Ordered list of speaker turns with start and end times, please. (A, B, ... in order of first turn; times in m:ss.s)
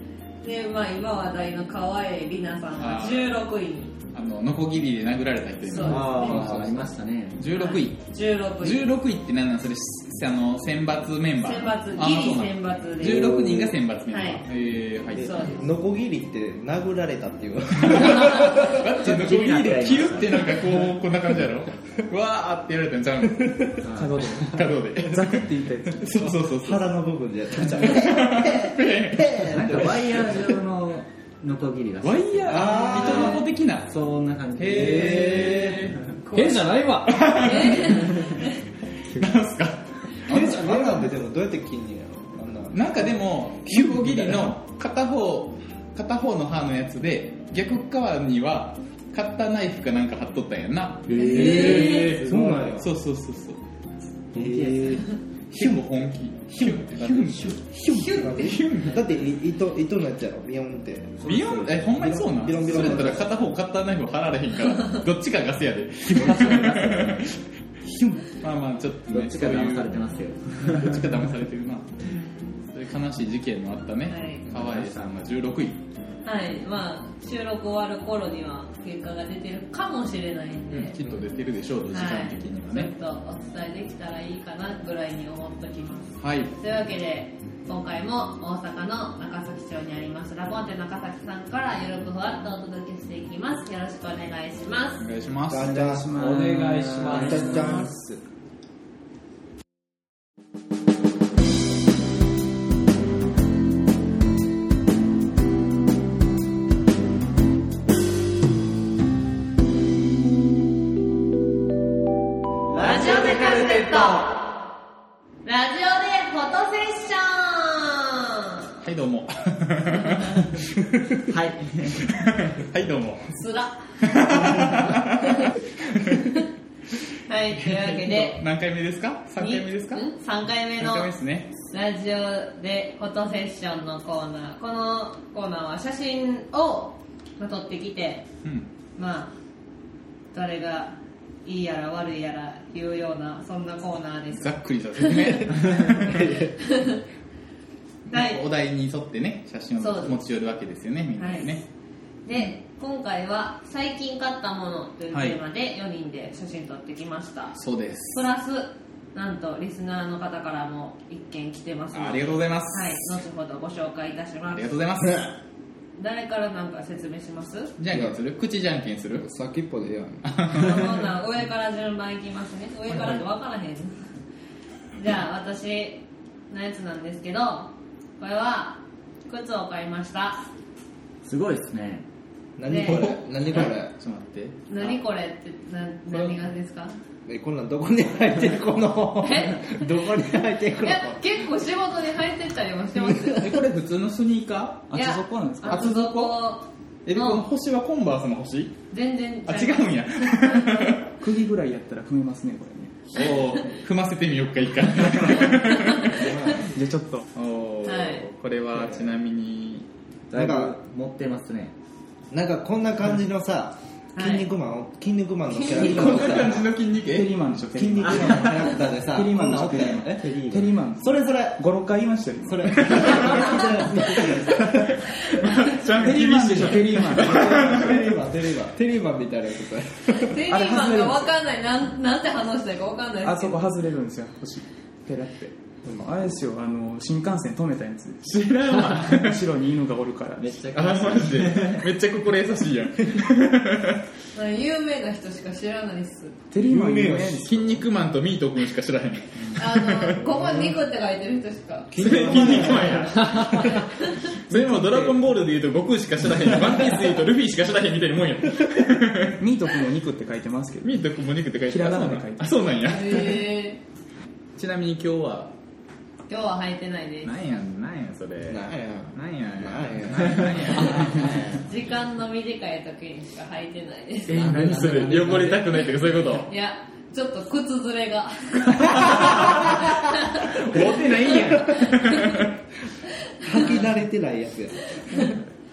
0:00.4-0:04.0 A
0:02.8-0:03.4 B
0:04.1-0:06.8 B
0:05.6-0:06.4 A
0:05.8-0:07.5 C
0:06.2-0:06.7 D
0:07.4-0:15.6 B
0:07.5-0:08.9 A
0:11.4-0:13.4 A
0:13.3-0:13.8 C
0:14.1-0:14.5 A
0:15.2-0:15.7 A
0:15.5-0:18.8 D
0:17.8-0:26.9 B
0:19.0-0:20.8 C
0:23.8-0:24.2 C
0:23.9-0:26.4 E
0:26.5-0:30.5 D
0:27.7-0:29.8 B
0:29.4-0:35.9 C
0:32.0-0:34.0 B
0:32.5-0:33.4 D
0:34.6-0:36.0 B
0:34.7-0:35.7 D
0:36.2-0:38.0 F
0:37.1-0:38.2 B
0:37.4-0:38.4 A
0:39.1-0:40.5 B
0:40.3-0:44.5 D
0:40.4-0:40.8 F
0:42.7-0:53.6 B
0:51.1-0:52.7 C
0:51.1-0:52.9 D
0:54.3-0:55.1 C
0:54.4-0:55.0 D
0:55.5-0:57.7 B
0:55.5-1:03.3 D
0:57.8-0:58.6 A
0:58.3-0:59.0 B
1:01.2-1:07.5 B
1:06.2-1:07.2 C
1:08.2-1:10.0 B
1:09.1-1:11.2 C
1:10.5-1:11.9 B
1:12.1-1:12.6 A
1:12.7-1:15.8 B
1:14.1-1:14.5 A
1:14.6-1:15.0 C
1:16.2-1:21.0 A
1:20.7-1:22.9 B
1:21.9-1:35.1 A
1:26.2-1:26.5 B
1:35.0-1:35.8 B
1:35.5-1:36.1 D
1:35.6-1:38.2 E
1:36.2-1:37.7 F
1:37.0-1:38.0 D
1:52.7-1:54.3 C
1:52.8-1:54.4 A
1:55.4-1:58.7 A
1:58.8-2:00.6 B
2:01.3-2:02.0 C
2:01.9-2:03.4 B
2:03.3-2:03.9 A
2:04.0-2:06.3 B
2:05.2-2:05.6 A
2:07.3-2:08.4 A
2:07.6-2:10.1 B
2:09.4-2:11.2 A
2:10.8-2:11.5 B
2:11.7-2:18.3 A
2:19.0-2:19.4 A
2:20.3-2:27.0 A
2:24.3-2:26.4 B
2:26.0-2:26.5 D
2:28.1-2:31.6 B
2:28.1-2:28.4 A
2:29.8-2:30.2 A
2:31.2-2:31.5 A
2:32.2-2:37.6 A
2:35.1-2:35.4 B
2:37.6-2:38.3 B
2:38.1-2:44.7 A
2:41.9-2:43.2 B
2:44.5-2:45.3 B
2:46.0-2:47.8 A
2:47.8-2:49.2 B
2:47.9-2:48.2 D
2:49.2-2:50.5 D
2:50.2-2:51.0 B
2:50.5-2:54.0 A
2:55.0-3:00.5 A
3:01.2-3:02.1 C
3:02.6-3:03.9 D
3:02.7-3:03.2 A
3:02.8-3:05.0 B
3:04.7-3:07.0 A
3:06.1-3:06.4 B
3:07.3-3:11.2 D
3:09.2-3:09.9 A
3:10.8-3:13.6 A
3:13.3-3:14.9 B
3:14.9-3:15.9 E
3:14.9-3:17.5 A
3:15.6-3:16.4 B
3:17.0-3:18.8 B
3:18.9-3:20.6 A
3:19.5-3:21.1 B
3:21.2-3:23.2 E
3:23.1-3:26.3 B
3:26.2-3:26.6 C
3:26.6-3:27.3 E
3:27.3-3:29.9 B
3:27.8-3:28.2 A
3:30.3-3:31.8 C
3:30.3-3:30.8 D
3:32.3-3:36.7 D
3:34.2-3:34.5 A
3:35.6-3:37.6 B
3:37.0-3:43.2 E
3:37.8-3:40.3 D
3:40.1-3:40.8 C
3:41.0-3:41.6 D
3:42.4-3:45.1 D
3:43.0-3:43.3 B
3:43.1-3:45.6 A
3:45.0-3:48.0 B
3:46.0-3:47.8 E
3:46.1-3:50.4 D
3:50.1-3:53.7 A
3:50.5-3:51.3 E
3:53.2-4:00.5 E
3:58.2-3:59.5 B
4:00.4-4:01.9 C
4:00.7-4:04.0 B
4:04.3-4:06.4 A
4:06.5-4:07.8 E
4:06.6-4:07.6 D
4:07.4-4:10.2 B
4:09.5-4:12.1 A
4:10.3-4:10.7 D
4:11.9-4:13.7 D
4:12.0-4:19.4 B
4:14.5-4:15.2 E
4:19.4-4:21.0 E
4:20.8-4:23.5 B
4:21.6-4:22.6 E
4:22.8-4:23.8 A
4:24.6-4:25.6 B
4:26.3-4:27.3 A
4:27.2-4:31.4 B
4:28.5-4:31.3 D
4:31.6-4:34.5 A
4:34.3-4:35.8 C
4:34.3-4:36.5 B
4:36.5-4:42.4 A
4:38.8-4:42.6 B
4:43.4-4:43.9 A
4:43.4-4:45.4 D